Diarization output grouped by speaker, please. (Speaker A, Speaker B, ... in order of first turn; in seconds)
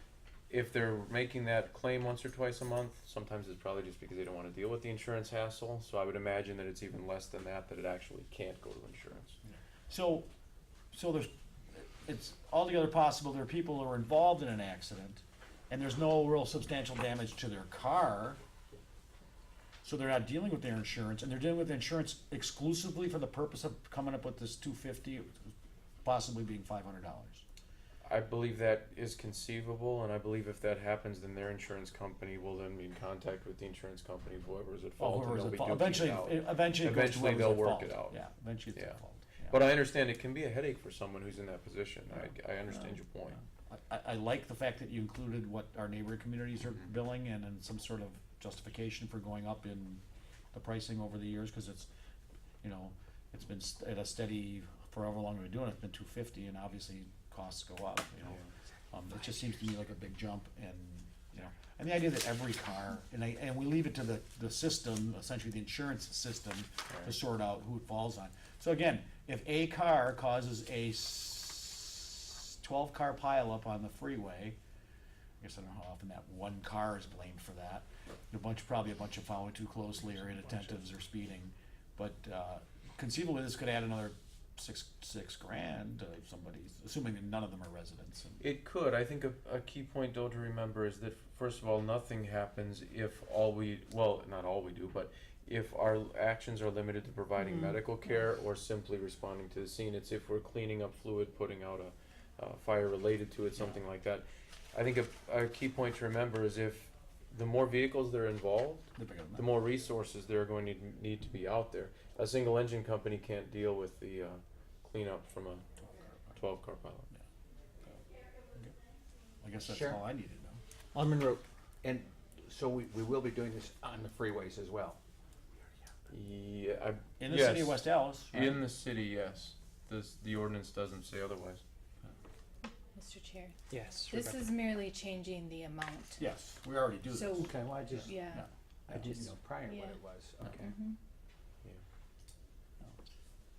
Speaker A: 0.5-9.4, 28.0-38.2, 38.7-43.4, 88.4-115.6, 116.3-117.1, 126.1-131.6
Speaker B: 9.9-10.3, 10.9-18.4, 19.8-25.5, 26.0-27.4, 35.0-39.6, 42.2-42.9, 43.7-50.0, 50.5-51.9, 52.6-58.4, 58.9-74.5, 75.4-88.4, 109.0-109.5, 115.8-116.3, 119.4-120.6, 127.2-128.6, 136.2-137.5, 138.3-139.2
Speaker C: 119.6-120.0, 120.9-121.4, 133.7-134.4, 138.9-139.3
Speaker D: 122.9-124.9, 137.5-138.1, 139.0-140.7
Speaker E: 132.9-136.2, 137.1-137.5, 138.1-138.4, 139.7-140.0, 140.6-140.9